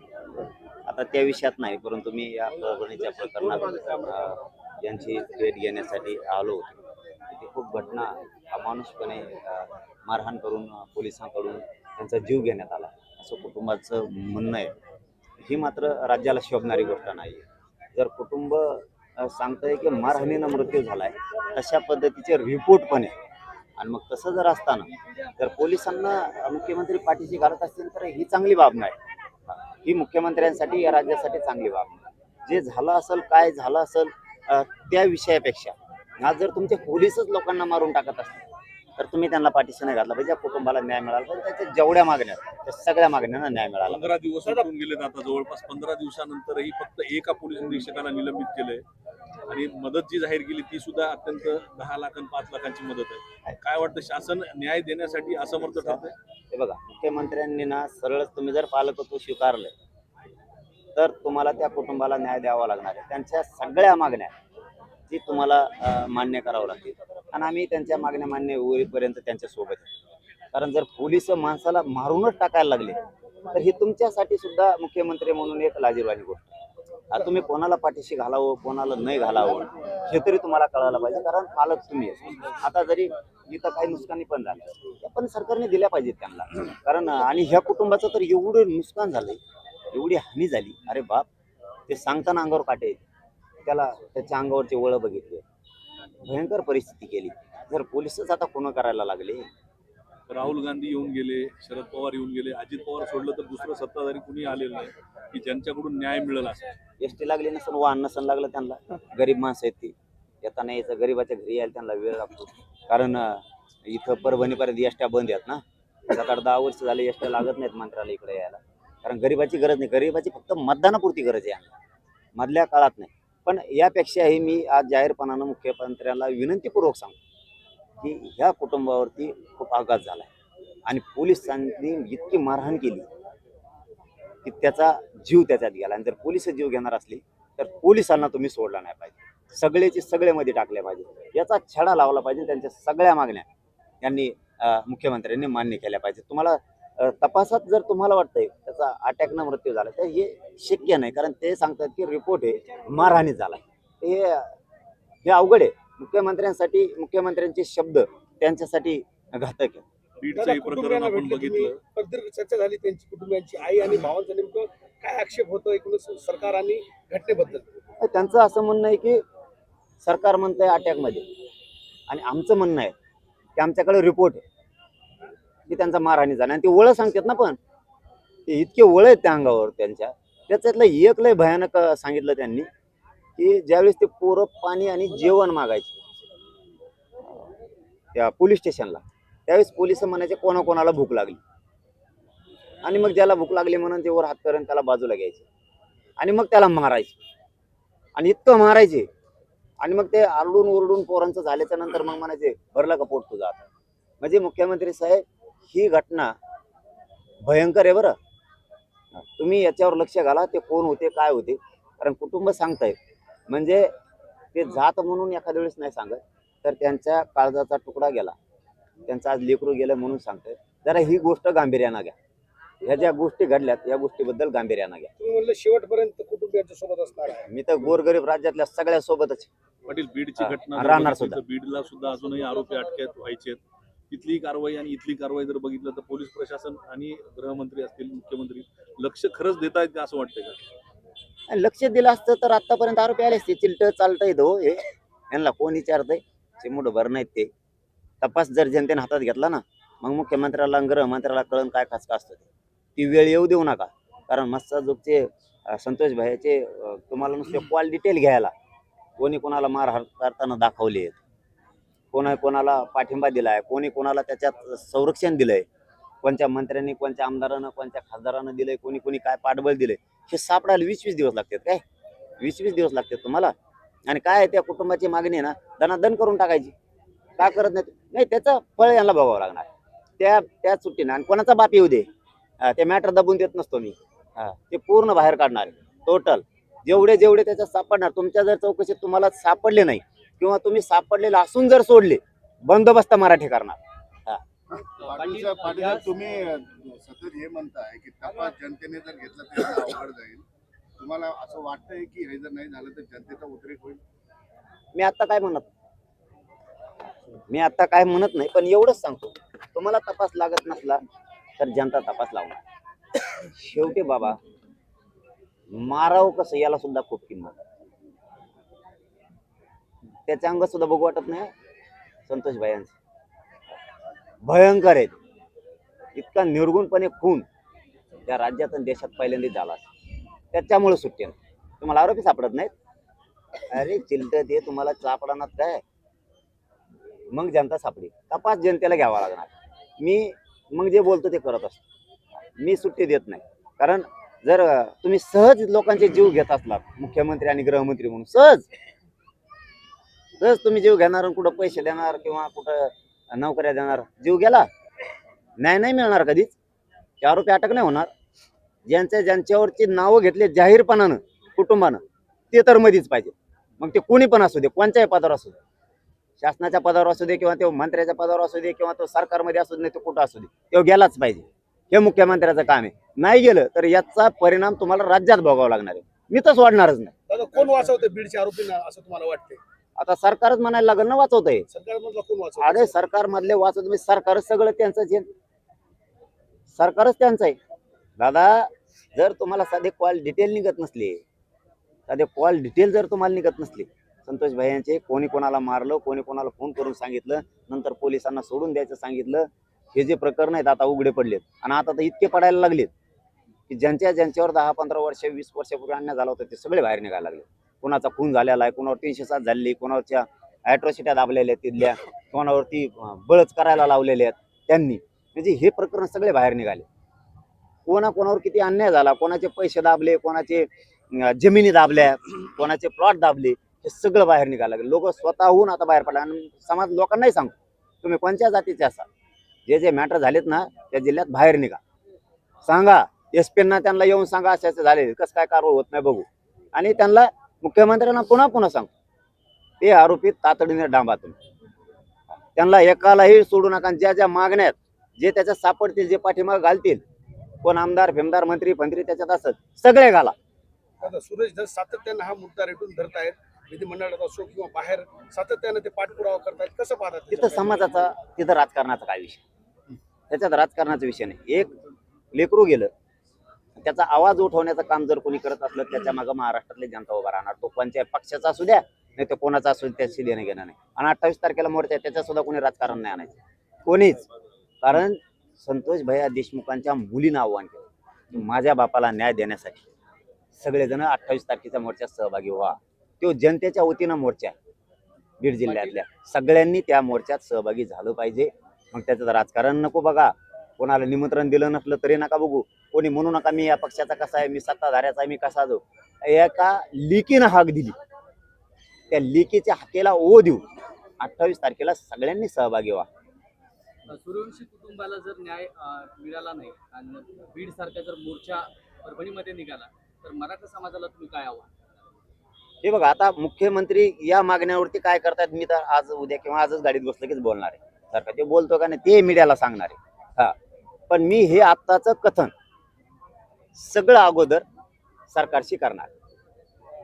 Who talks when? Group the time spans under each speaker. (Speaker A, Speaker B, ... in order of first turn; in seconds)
Speaker A: 0.9-6.8, 7.3-14.7, 15.4-17.4, 17.9-23.1, 23.8-28.9, 29.5-38.4, 39.0-44.1, 55.8-59.7, 61.0-64.3, 65.1-69.9, 70.5-73.0, 73.5-76.5, 77.1-89.4, 89.9-91.2, 91.9-93.0, 93.7-95.4, 96.2-99.5, 107.0-121.7, 122.3-127.2, 128.0-130.3, 130.9-133.1, 134.4-143.4, 144.0-154.5, 155.2-159.8, 168.0-169.2, 170.0-171.2, 172.1-172.9, 173.6-174.4, 175.7-177.6, 178.5-182.7, 183.4-185.9, 188.1-191.4, 192.8-195.4, 196.2-197.1, 198.2-199.1, 199.8-203.6, 204.2-206.3, 207.4-208.1, 209.2-212.9, 213.5-213.9, 214.5-218.3, 219.1-222.1, 222.8-225.1, 227.5-229.5, 230.4-231.4, 241.5-247.5, 248.2-252.4, 252.9-258.5, 259.2-261.2, 262.1-265.6, 266.2-271.8, 272.4-273.5, 274.1-276.7, 277.4-279.7, 280.2-282.1, 282.6-294.4, 304.9-305.6, 307.5-311.0, 311.6-312.6, 313.3-314.4, 315.7-317.6, 320.3-321.5, 322.3-322.9, 324.4-325.1, 326.1-327.4, 328.2-329.9, 330.5-332.7, 333.7-335.8, 337.3-341.8, 342.6-348.7, 350.4-354.6, 355.6-356.5, 357.2-358.1, 358.9-365.6, 366.4-377.1, 380.0-381.6, 382.6-385.3, 386.7-387.6, 388.2-391.2, 392.1-402.9, 403.7-416.8, 417.9-429.1, 429.7-431.8, 432.6-438.9, 439.8-441.4, 442.5-447.0, 447.6-450.3, 457.3-459.4, 460.3-461.7, 462.3-462.9, 463.8-474.2, 474.8-479.8, 480.5-484.5, 485.4-497.9, 499.1-500.6, 501.2-503.1, 512.8-520.5, 521.1-522.5, 523.7-524.6, 525.3-526.1
Speaker B: 43.9-48.8, 49.5-56.1, 100.3-106.7, 160.2-161.8, 229.9-240.6
Speaker C: 160.3-167.7, 225.2-227.5, 294.9-300.3, 301.0-302.1, 302.7-304.0, 377.3-379.6, 381.7-382.9, 451.0-457.8
Speaker D: 295.0-296.2, 485.6-485.9, 504.1-511.7
Speaker E: 297.4-298.0, 298.8-299.4, 301.1-303.8